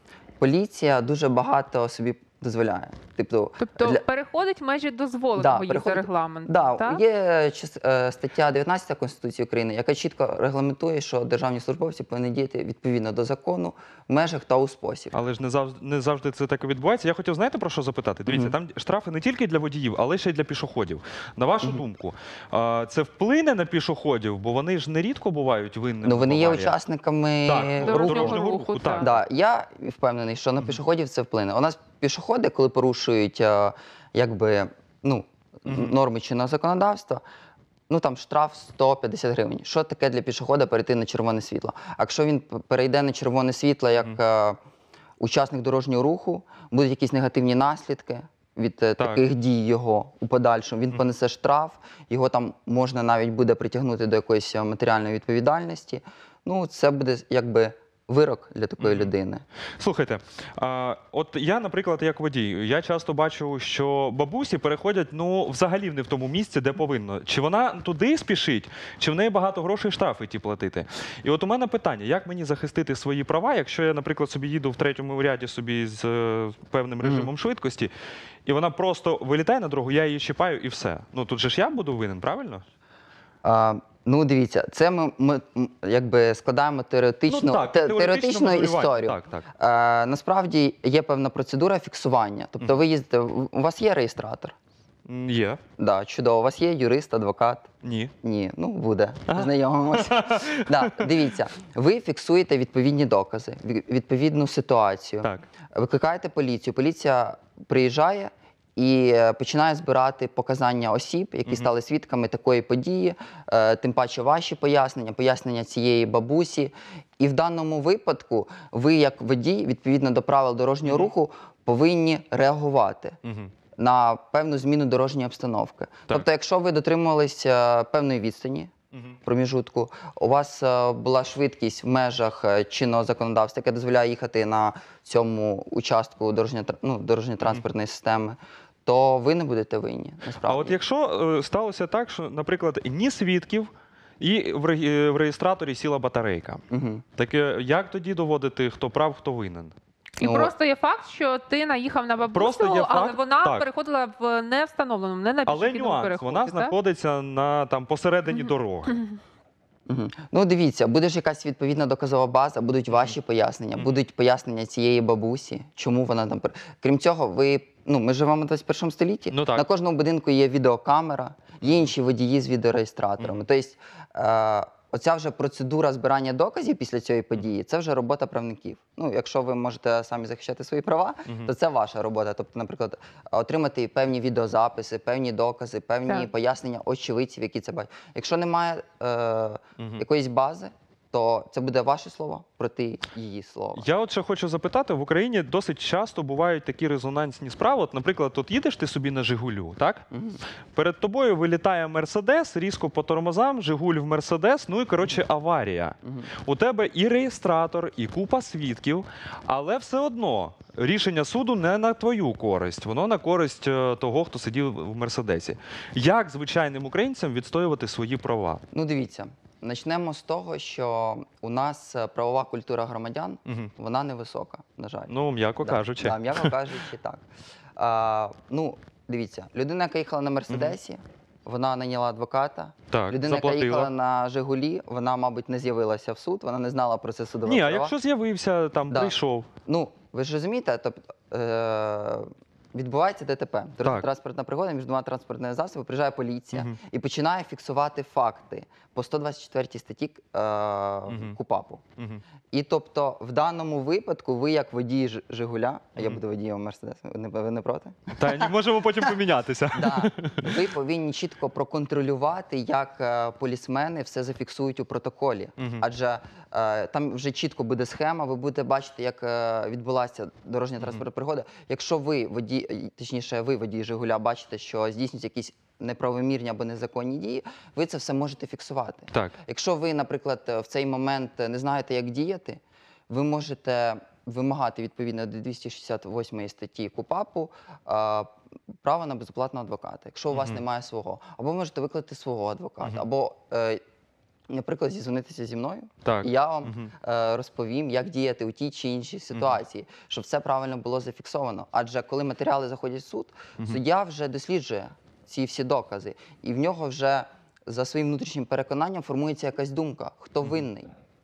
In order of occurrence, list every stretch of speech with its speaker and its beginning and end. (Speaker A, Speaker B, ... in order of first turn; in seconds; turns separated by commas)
Speaker A: 0.4-4.0, Speaker B: 3.6-7.0, Speaker A: 5.3-15.2, Speaker C: 15.1-26.7, Speaker A: 18.3-18.6, Speaker A: 26.0-28.4, Speaker C: 27.5-29.2, Speaker B: 27.8-29.1, Speaker A: 29.0-37.2, Speaker C: 35.7-36.0, Speaker A: 37.9-44.6, Speaker A: 45.2-59.4, Speaker C: 58.8-59.1, Speaker C: 59.8-77.9, Speaker A: 77.0-77.3, Speaker C: 78.5-82.6, Speaker A: 83.4-94.5, Speaker C: 87.3-89.5, Speaker C: 95.0-95.6, Speaker A: 95.8-97.7, Speaker C: 97.8-98.1, Speaker A: 98.2-123.2, Speaker C: 99.3-101.1, Speaker C: 111.5-111.7, Speaker C: 120.8-121.1, Speaker C: 123.2-123.5, Speaker A: 123.8-128.7, Speaker C: 128.9-129.2, Speaker A: 129.2-140.8, Speaker C: 140.4-146.6, Speaker A: 146.7-147.0, Speaker C: 147.2-149.7, Speaker B: 150.2-156.7, Speaker A: 150.2-150.5, Speaker C: 152.3-153.7, Speaker C: 155.5-159.0, Speaker B: 158.3-159.2, Speaker A: 159.9-193.8, Speaker C: 169.3-169.6, Speaker C: 173.2-173.4, Speaker C: 189.8-190.0, Speaker C: 193.8-200.0, Speaker A: 200.1-200.4, Speaker C: 200.7-218.6, Speaker A: 206.0-206.3, Speaker A: 218.7-227.2, Speaker C: 223.4-223.7, Speaker C: 225.1-226.5, Speaker A: 227.8-237.9, Speaker C: 230.5-230.8, Speaker C: 232.9-233.9, Speaker C: 237.4-239.5, Speaker A: 238.9-251.8, Speaker C: 243.8-244.1, Speaker C: 251.1-251.4, Speaker A: 252.5-259.1, Speaker C: 258.1-260.6, Speaker A: 259.7-288.3, Speaker C: 265.6-265.8, Speaker C: 270.8-271.0, Speaker A: 288.8-293.8, Speaker C: 290.3-290.6, Speaker A: 294.5-310.9, Speaker C: 296.0-296.9, Speaker C: 299.3-299.6